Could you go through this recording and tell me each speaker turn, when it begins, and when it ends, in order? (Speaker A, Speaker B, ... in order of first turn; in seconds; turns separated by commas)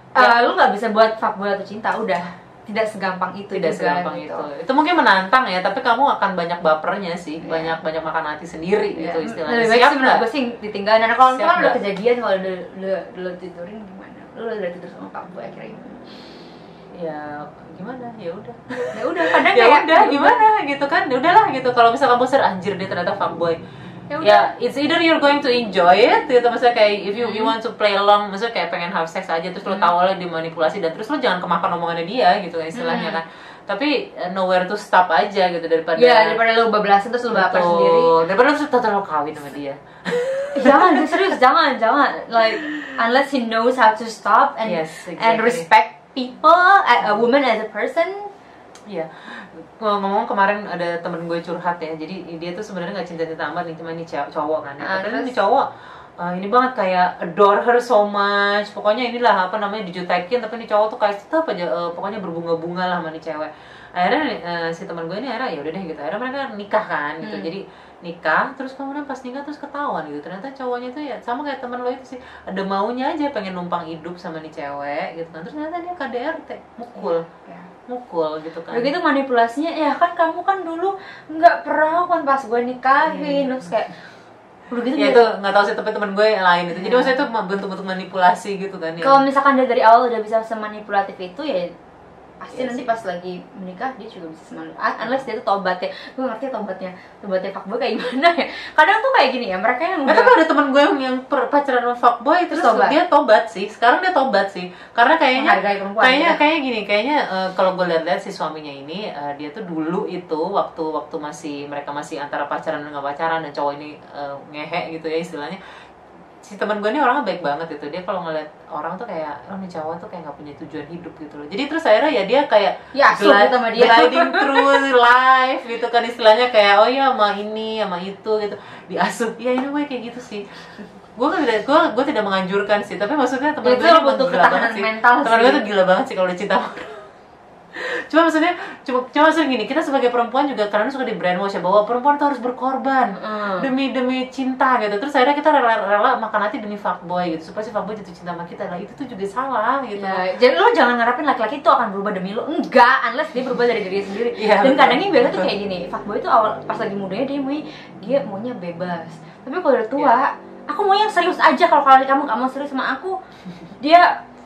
Speaker A: 0.2-4.5, Speaker B: 3.5-10.3, Speaker A: 7.4-7.8, Speaker A: 9.0-16.1, Speaker B: 11.3-11.8, Speaker B: 16.9-23.6, Speaker A: 18.9-20.4, Speaker A: 24.1-24.5, Speaker B: 24.2-36.4, Speaker A: 27.2-27.5, Speaker A: 29.7-29.9, Speaker A: 32.7-33.2, Speaker A: 36.0-38.1, Speaker B: 37.3-41.0, Speaker A: 40.5-48.3, Speaker B: 42.6-42.9, Speaker B: 44.6-45.7, Speaker B: 48.9-55.7, Speaker A: 54.8-55.3, Speaker B: 56.2-77.2, Speaker A: 67.2-67.5, Speaker A: 77.0-77.7, Speaker B: 77.9-78.9, Speaker A: 78.7-83.9, Speaker B: 83.0-83.7, Speaker A: 84.7-85.2, Speaker B: 85.0-89.2, Speaker A: 86.8-87.2, Speaker A: 89.0-91.7, Speaker A: 92.4-100.3, Speaker B: 92.5-92.9, Speaker B: 100.1-115.6, Speaker A: 102.5-103.0, Speaker A: 105.3-106.4, Speaker B: 116.4-130.5, Speaker A: 122.9-124.8, Speaker B: 131.2-137.1, Speaker A: 133.7-135.7, Speaker B: 137.7-150.3, Speaker A: 143.2-143.7, Speaker A: 150.0-163.2, Speaker B: 154.4-155.5, Speaker A: 163.8-164.2